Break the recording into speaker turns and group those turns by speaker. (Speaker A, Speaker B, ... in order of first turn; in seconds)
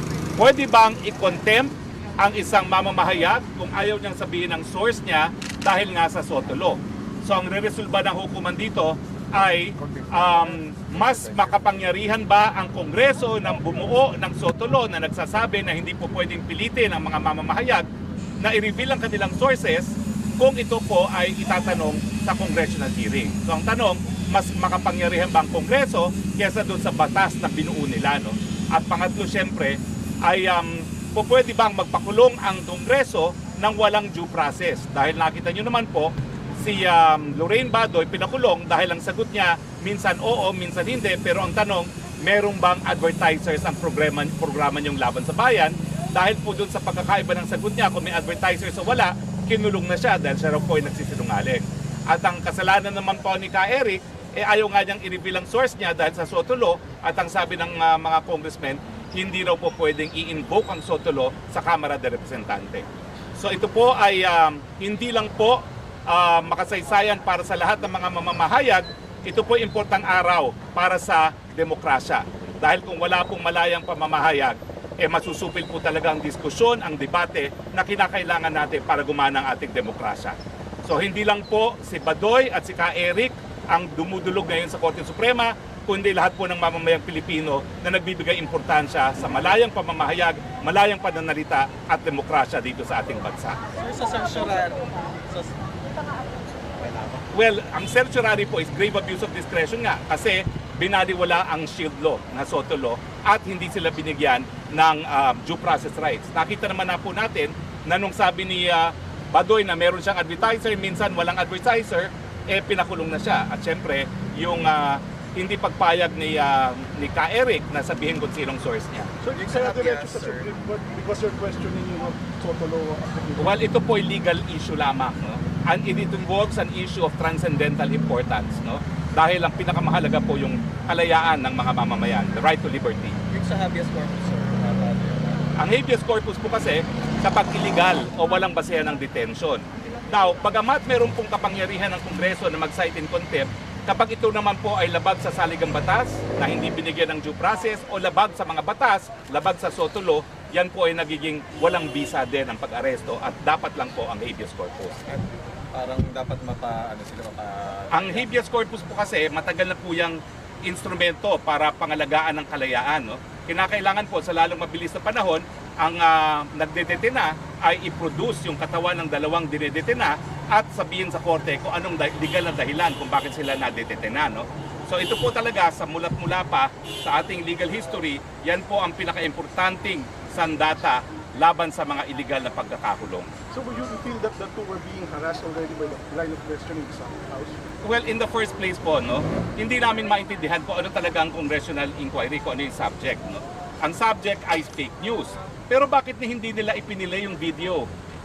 Speaker A: 0.4-17.9, 18.4-62.9, 63.4-93.6, 97.3-119.1, 123.4-133.2, 135.6-155.0, 157.9-183.3, 187.8-197.8
Speaker B: 93.8-95.5, 96.8-97.2, 119.3-120.5, 133.3-135.4, 155.1-158.2
Speaker C: 119.2-123.6, 183.5-187.6